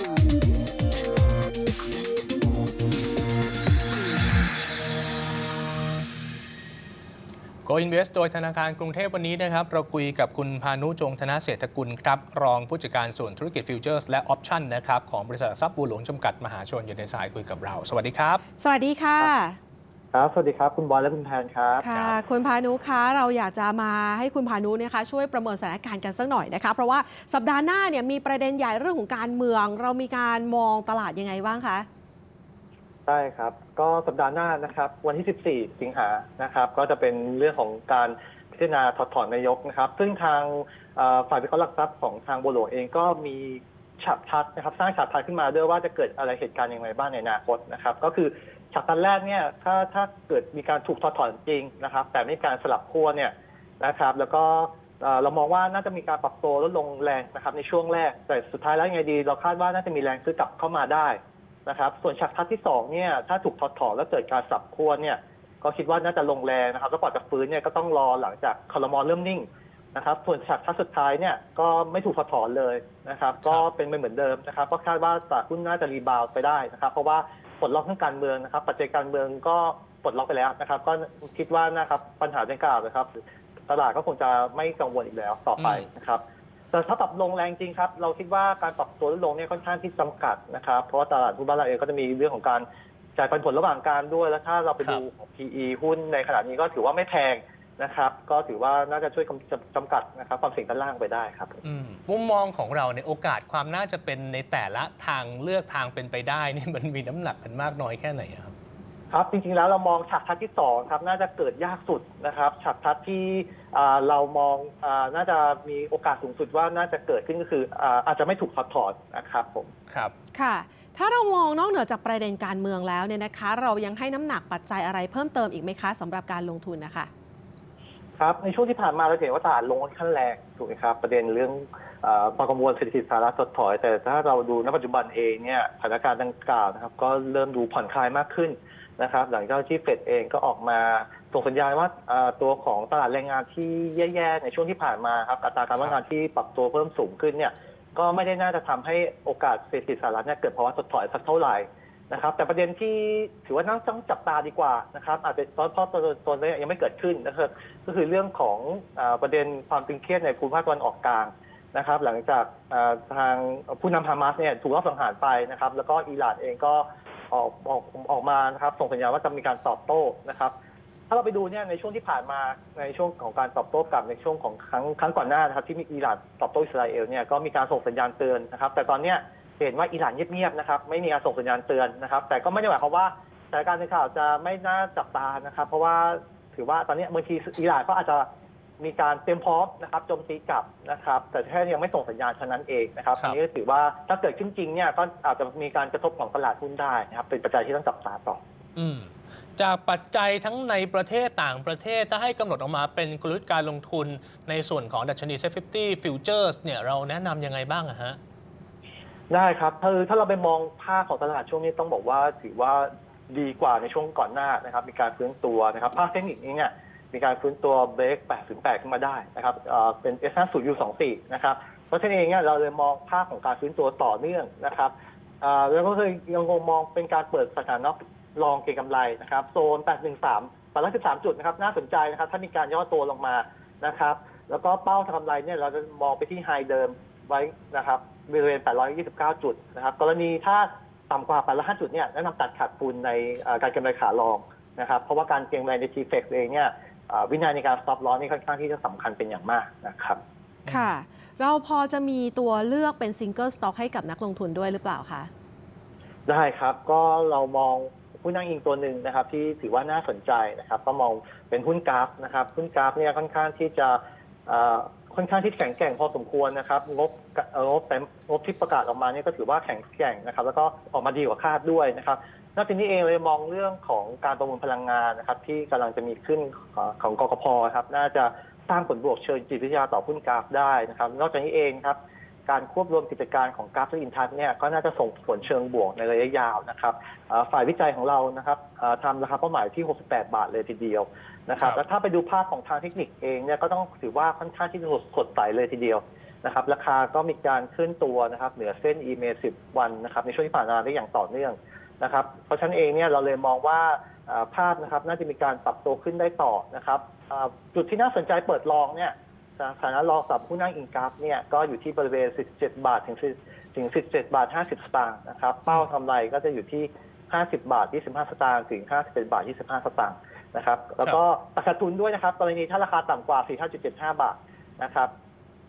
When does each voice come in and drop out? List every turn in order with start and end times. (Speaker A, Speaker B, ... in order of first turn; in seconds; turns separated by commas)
Speaker A: 7.6-18.4, Speaker B: 18.6-19.6, Speaker C: 20.1-21.8, Speaker B: 21.8-31.9, Speaker A: 21.9-22.2, Speaker C: 33.0-101.6, Speaker A: 85.6-85.8, Speaker A: 101.6-108.5, Speaker C: 109.1-119.7, Speaker A: 119.9-120.1, Speaker B: 120.3-127.1, Speaker C: 128.2-170.5, Speaker C: 171.1-188.2, Speaker C: 188.8-198.4, Speaker A: 198.8-208.2, Speaker C: 209.3-250.2, Speaker B: 250.7-255.3, Speaker C: 256.2-325.1